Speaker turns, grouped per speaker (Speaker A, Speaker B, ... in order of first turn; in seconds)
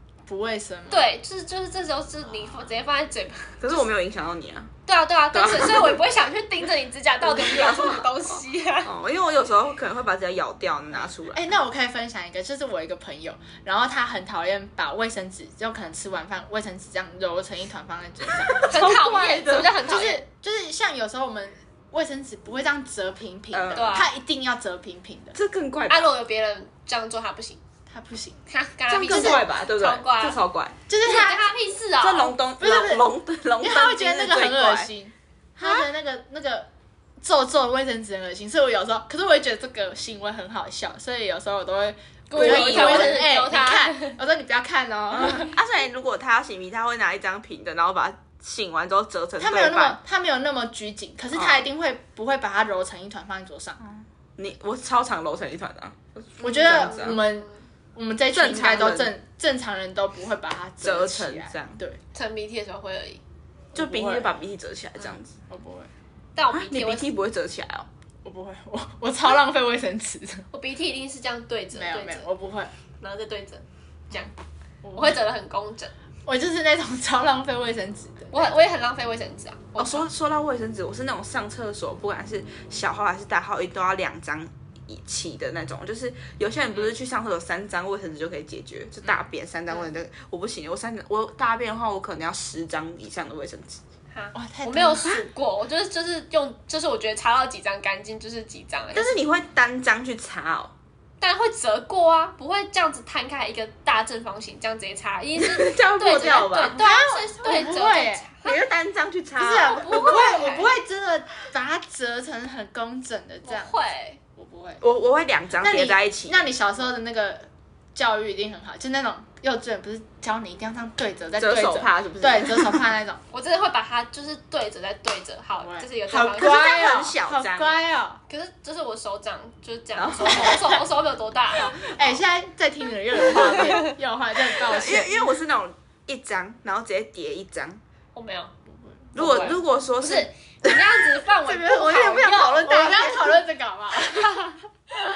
Speaker A: 0.3-1.1, 11.3-18.7, 19.8-25.4, 27.9-28.4, 29.1-29.4, 30.9-31.5, 32.6-36.7, 37.2-45.5, 49.4-53.8, 56.4-62.0, 63.7-64.3, 65.5-65.9, 68.2-70.5, 71.7-72.7, 74.8-75.2, 76.3-78.5, 94.3-95.2, 106.7-108.3, 109.4-113.8, 114.3-114.8, 115.6-123.2, 125.6-128.2, 131.8-135.3, 141.4-144.6
Speaker B: 0.9-3.9, 4.9-8.9, 18.7-20.2, 23.7-24.1, 25.9-27.6, 28.5-30.4, 31.0-32.4, 42.3-44.2, 56.4-57.5, 62.1-63.2, 66.3-67.1, 70.5-72.3, 73.0-74.3, 74.9-75.9, 78.3-80.0, 94.1-99.2, 101.2-108.6, 109.6-110.8, 113.4-114.2, 123.3-127.0, 128.3-131.8, 138.1-138.5, 139.1-143.1
Speaker C: 3.6-4.7, 5.3-6.0, 7.2-11.5, 18.4-19.8, 23.5-24.1, 25.3-26.1, 28.9-30.8, 32.0-34.9, 42.3-43.3, 45.1-50.0, 51.3-51.6, 53.8-57.2, 58.3-59.1, 60.8-61.8, 63.7-65.3, 66.5-67.9, 79.8-93.8, 98.9-100.7, 105.3-106.8, 108.4-110.2, 114.8-116.5, 121.4-122.9, 126.1-127.8, 129.9-130.8, 131.6-132.2, 134.5-137.8, 139.1-143.4